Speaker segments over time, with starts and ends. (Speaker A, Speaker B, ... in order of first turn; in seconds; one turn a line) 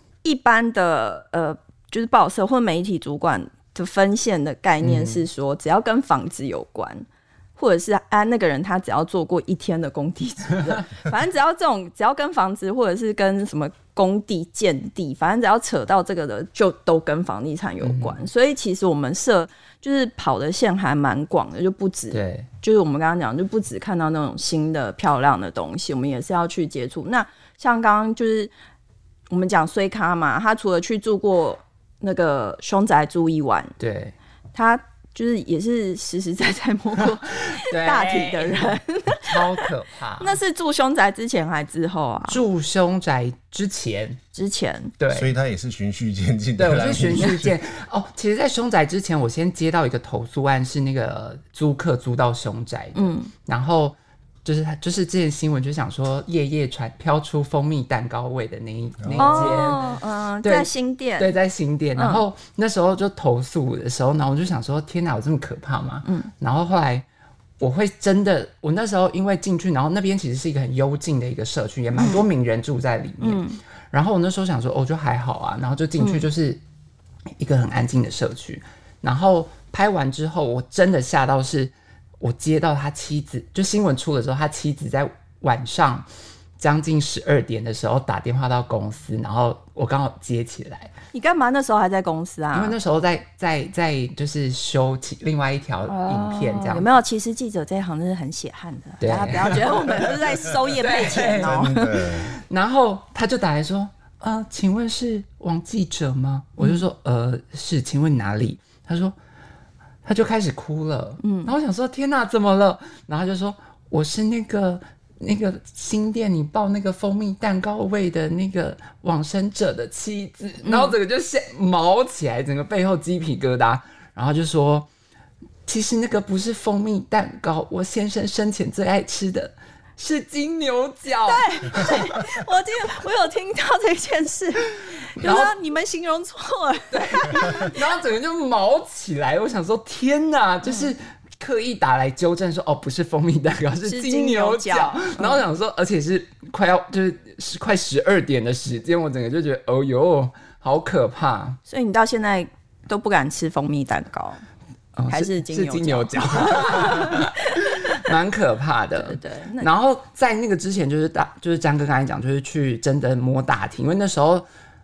Speaker A: 0.2-7.0
Speaker B: 4.8-5.2
Speaker A: 7.6-28.5
Speaker B: 17.8-18.2
Speaker B: 22.1-22.5
Speaker A: 29.3-33.7
Speaker B: 33.8-34.1
Speaker A: 34.5-39.4
Speaker B: 37.6-40.4
Speaker A: 40.2-42.4
Speaker B: 42.3-44.2
Speaker A: 44.3-44.9
Speaker B: 45.0-45.3
Speaker C: 45.1-47.5
Speaker B: 46.6-67.0
Speaker A: 52.9-53.3
Speaker C: 59.0-59.6
Speaker A: 59.2-61.3
Speaker A: 62.0-62.2
Speaker A: 66.0-66.3
Speaker B: 67.6-76.6
Speaker A: 72.0-72.2
Speaker A: 73.2-73.6
Speaker A: 76.0-76.3
Speaker B: 77.4-86.1
Speaker B: 86.6-90.9
Speaker A: 91.1-92.8
Speaker B: 92.5-96.9
Speaker A: 95.9-101.8
Speaker B: 99.0-100.1
Speaker B: 100.8-109.1
Speaker C: 101.2-102.3
Speaker B: 110.0-124.9
Speaker A: 111.2-111.5
Speaker A: 120.6-121.0
Speaker B: 125.7-132.0
Speaker A: 131.2-137.8
Speaker B: 135.2-135.5
Speaker B: 136.9-151.6
Speaker A: 143.8-145.4
Speaker A: 151.7-154.4
Speaker B: 154.9-164.4
Speaker A: 155.1-157.9
Speaker A: 159.0-159.7